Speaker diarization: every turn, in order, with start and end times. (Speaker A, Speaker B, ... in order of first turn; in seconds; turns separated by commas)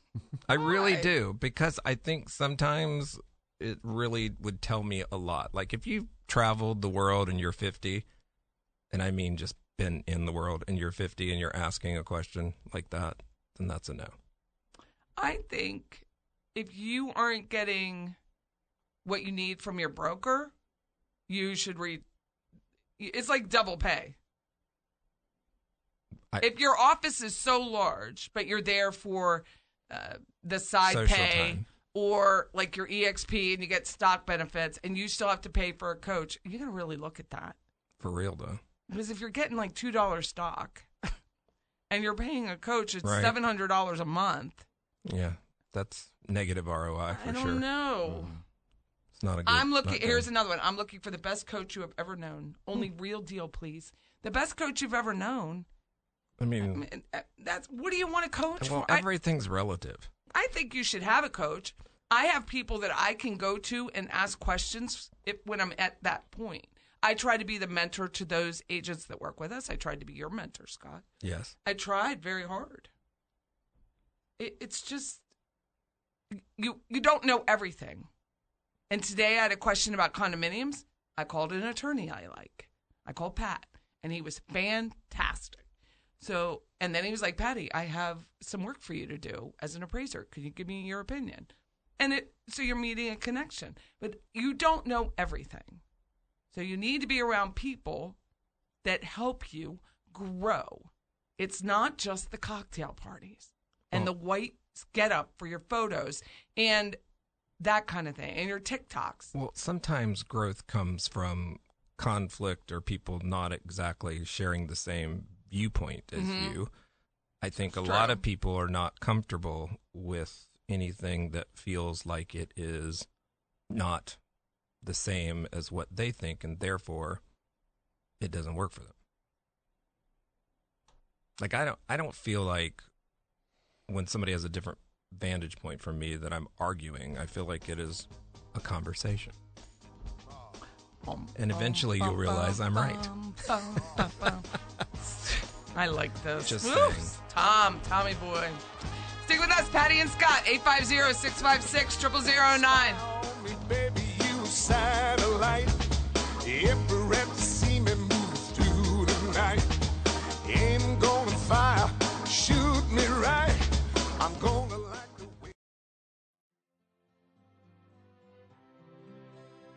Speaker A: 0.4-8.1, Speaker B: 0.6-1.1, Speaker A: 8.9-14.1, Speaker B: 15.2-18.1, Speaker B: 19.0-20.5, Speaker B: 21.3-22.0, Speaker B: 23.0-24.2, Speaker B: 26.4-37.6, Speaker A: 30.8-31.7, Speaker A: 38.0-38.6, Speaker B: 38.9-41.1, Speaker B: 41.9-44.6, Speaker A: 43.0-43.4, Speaker A: 45.0-47.6, Speaker B: 47.1-48.4, Speaker A: 49.1-50.3, Speaker B: 49.5-55.7, Speaker A: 56.4-56.9, Speaker B: 56.6-59.0, Speaker A: 58.6-60.1, Speaker B: 60.3-71.0, Speaker A: 71.2-71.5, Speaker B: 71.6-72.9, Speaker B: 74.4-75.2, Speaker B: 76.3-78.1, Speaker B: 78.9-85.6, Speaker B: 86.2-95.8, Speaker B: 96.5-98.2, Speaker B: 98.8-107.0, Speaker B: 107.6-109.3, Speaker A: 109.3-116.7, Speaker B: 116.2-116.6, Speaker A: 117.4-123.1, Speaker B: 117.7-118.2, Speaker A: 123.7-124.2, Speaker A: 124.8-127.2, Speaker A: 128.2-128.9, Speaker A: 131.4-132.8, Speaker A: 133.9-139.3, Speaker B: 141.0-148.6, Speaker A: 141.3-143.1, Speaker A: 143.9-144.3, Speaker A: 146.4-147.2, Speaker B: 149.2-153.0, Speaker C: 152.4-155.8, Speaker C: 156.4-159.6, Speaker C: 160.4-163.6, Speaker C: 164.2-165.5